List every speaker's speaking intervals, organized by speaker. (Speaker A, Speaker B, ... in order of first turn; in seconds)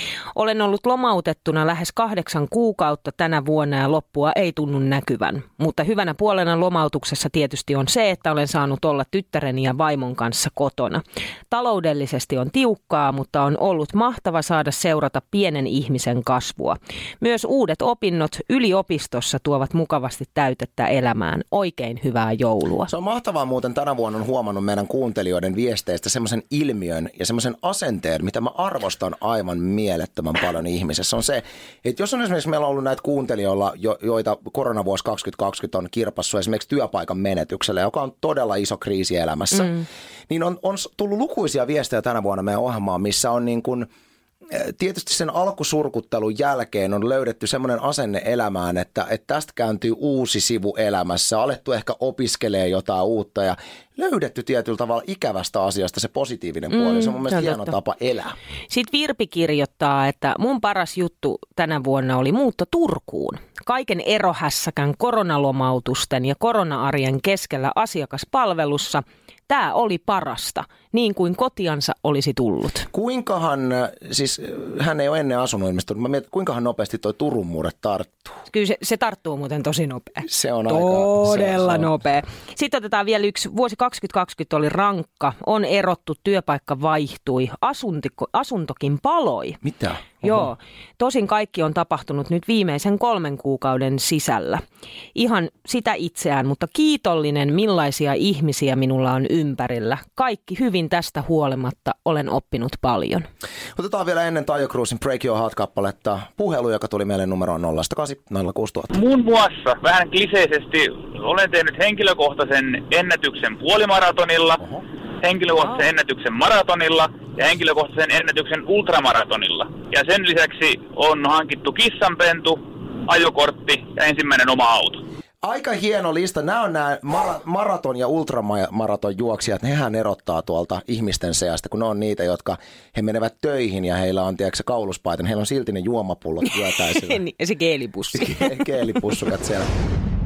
Speaker A: 0.3-22.9, 56.7-57.8, 58.7-72.9, 78.5-89.6, 90.2-94.6, 95.2-103.3, 136.5-138.8
Speaker B: 22.9-43.9, 44.5-58.3, 72.9-78.4, 80.2-81.9, 89.6-90.5, 103.8-108.9, 125.4-137.2, 138.1-139.7
Speaker C: 108.9-114.6, 115.2-125.0